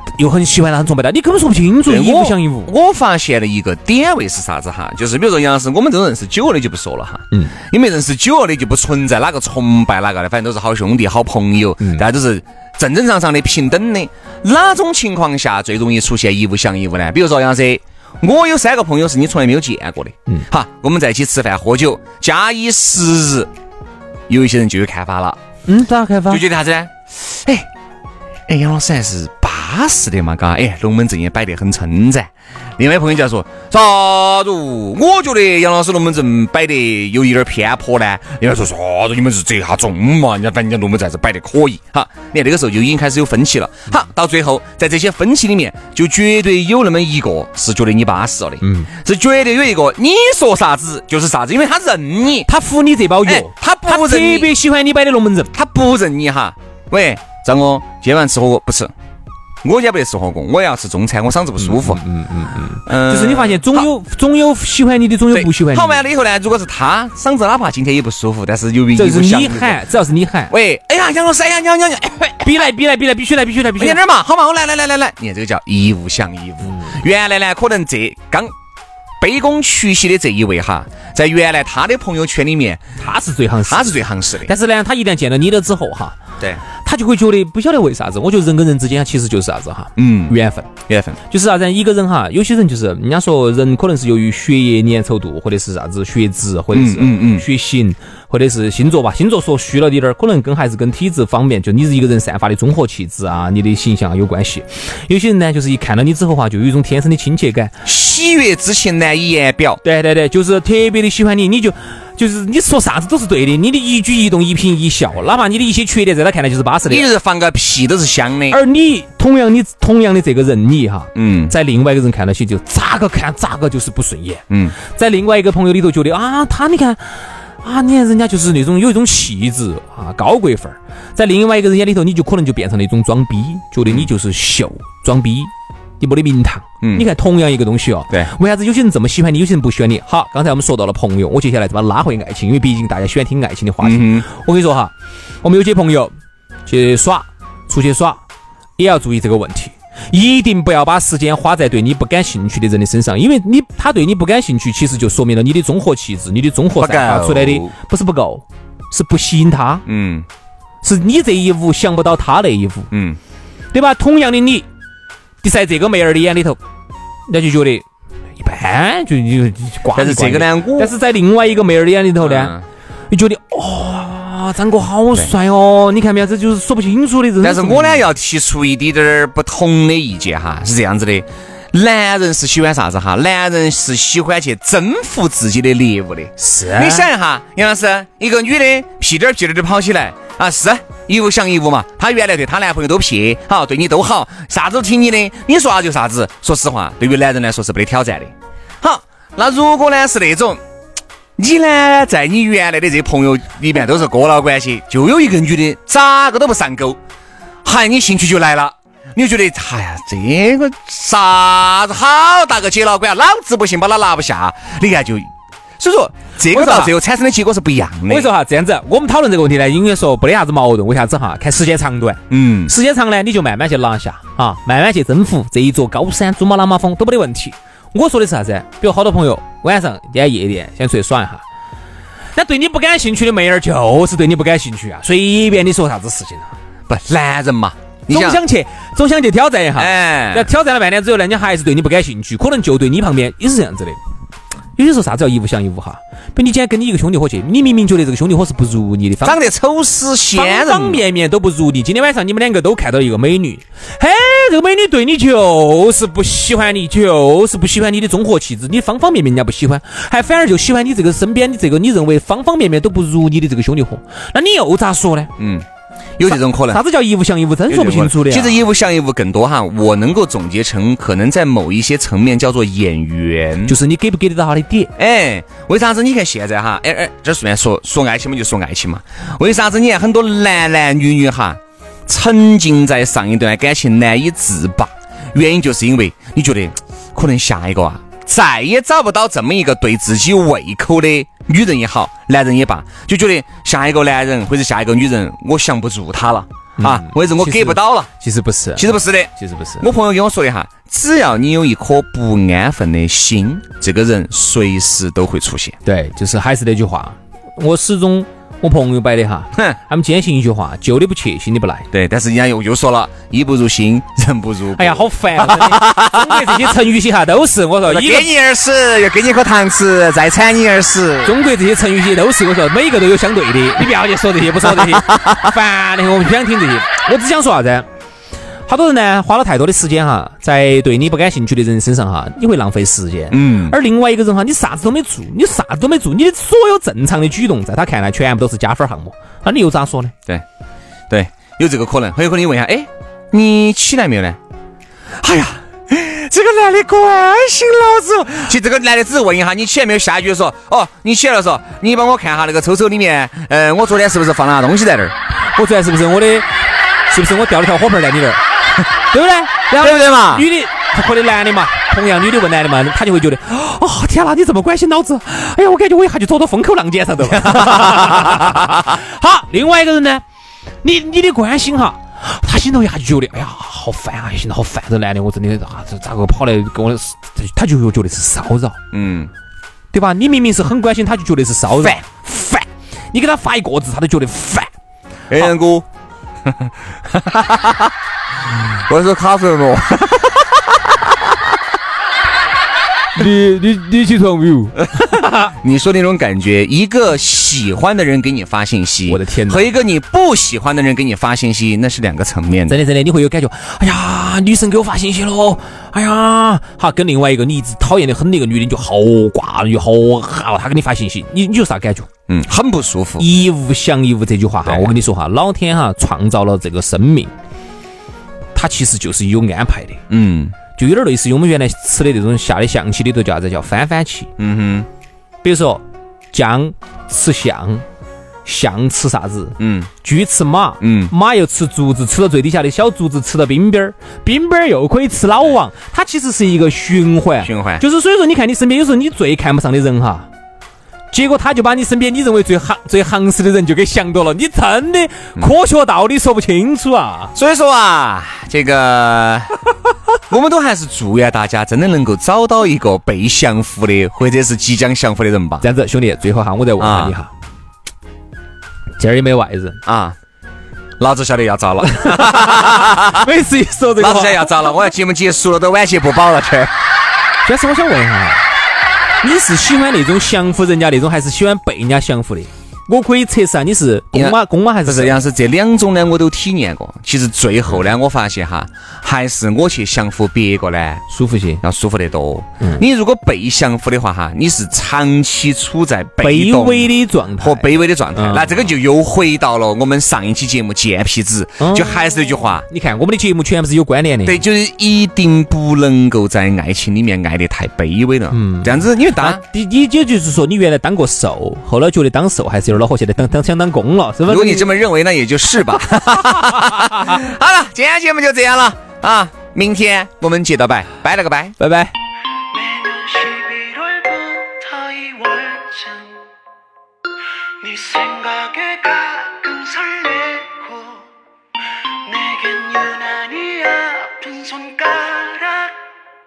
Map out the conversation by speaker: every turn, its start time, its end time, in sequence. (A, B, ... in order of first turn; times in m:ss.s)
0:00.2-0:02.7 A
0:01.9-0:23.5 B
0:24.3-0:25.4 B
0:25.7-0:26.4 A
0:26.3-0:27.7 B
0:28.5-0:52.5 B
0:48.6-0:48.9 A
0:52.4-0:55.5 A
0:53.2-0:54.5 B
0:55.5-0:58.9 B
0:59.6-1:02.0 B
1:01.6-1:06.0 A
1:02.9-1:03.9 B
1:05.3-1:09.8 B
1:08.9-1:10.5 A
1:10.5-1:12.6 B
1:12.4-1:14.0 A
1:13.8-1:18.5 B
1:19.2-1:22.8 B
1:23.0-1:26.2 A
1:23.7-1:24.5 B
1:26.8-1:30.7 A
1:30.0-1:30.4 B
1:30.9-1:31.2 B
1:31.3-1:47.8 A
1:36.7-1:37.4 B
1:47.8-1:49.8 B
1:49.8-1:57.1 A
1:56.9-1:58.6 B
1:58.5-2:26.1 A
2:01.1-2:01.5 B
2:04.5-2:04.8 B
2:16.8-2:17.1 B
2:23.8-2:24.3 B
2:26.6-2:28.2 A
2:28.8-2:39.8 A
2:36.8-2:37.7 B
2:39.9-2:40.2 B
2:40.8-2:42.9 A
2:42.9-2:43.2 B
2:43.7-2:44.6 A
2:45.4-2:46.6 A
2:47.3-2:47.8 A
2:48.4-2:52.6 A
2:49.9-2:50.9 B
2:52.2-2:52.6 B
2:53.1-2:58.0 A
2:57.4-3:20.6 B
3:06.4-3:07.1 A
3:21.4-3:27.0 B
3:27.6-3:38.3 B
3:36.5-3:36.9 A
3:38.1-3:51.4 A
3:42.3-3:42.7 B
3:52.4-3:56.5 A
3:56.9-3:58.4 B
3:58.1-4:04.0 A
3:59.8-4:00.5 B
4:04.8-4:09.4 A
4:09.2-4:11.0 B
4:10.4-4:25.3 A
4:25.4-4:25.6 B
4:26.2-4:26.8 B
4:26.2-4:28.6 A
4:27.7-4:33.8 B
4:33.6-4:34.9 A
4:35.0-4:58.1 B
4:56.8-4:59.9 A
4:58.8-5:05.8 B
5:05.8-5:11.9 A
5:11.9-5:16.8 B
5:14.8-5:18.3 A
5:17.8-5:21.4 B
5:21.2-5:27.9 A
5:24.6-5:25.4 B
5:28.7-5:40.1 A
5:33.3-5:33.8 B
5:41.1-5:44.4 B
5:45.2-5:55.1 B
5:55.5-5:56.5 A
5:57.1-5:58.4 A
5:59.1-6:10.2 A
5:59.8-6:00.4 B
6:07.3-6:08.8 B
6:10.8-6:18.8 A
6:18.9-6:19.3 B
6:19.9-6:24.7 A
6:25.3-6:25.9 B
6:26.4-6:27.9 B
6:28.7-6:31.3 B
6:33.1-6:35.3 A
6:34.8-6:42.8 B
6:39.1-6:39.6 A
6:42.7-6:52.1 A
6:52.3-6:53.3 B
6:53.2-6:57.3 A
6:54.6-6:54.9 B
6:58.5-7:00.0 A
7:00.1-7:00.6 B
7:00.8-7:04.3 A
7:04.4-7:04.9 B
7:05.4-7:07.8 A
7:08.4-7:20.3 A
7:09.6-7:09.9 B
7:10.8-7:11.1 B
7:17.4-7:17.8 B
7:21.1-7:27.3 A
7:27.4-7:29.6 B
7:30.3-7:35.7 B
7:35.6-7:37.3 A
7:36.8-7:37.2 B
7:39.0-7:39.8 A
7:39.9-7:40.2 B
7:41.0-7:43.2 B
7:41.8-7:44.8 A
7:44.0-7:46.7 B
7:47.4-7:48.4 A
7:49.2-7:55.2 A
7:54.1-8:01.0 B
8:01.1-8:01.6 A
8:01.6-8:12.7 B
8:06.2-8:08.7 A
8:11.6-8:12.0 A
8:12.7-8:14.4 A
8:14.2-8:19.4 B
8:18.3-8:24.7 A
8:24.3-8:31.6 B
8:31.6-8:31.9 A
8:32.5-8:36.1 C
8:37.6-8:41.0 C
8:42.1-8:45.8 C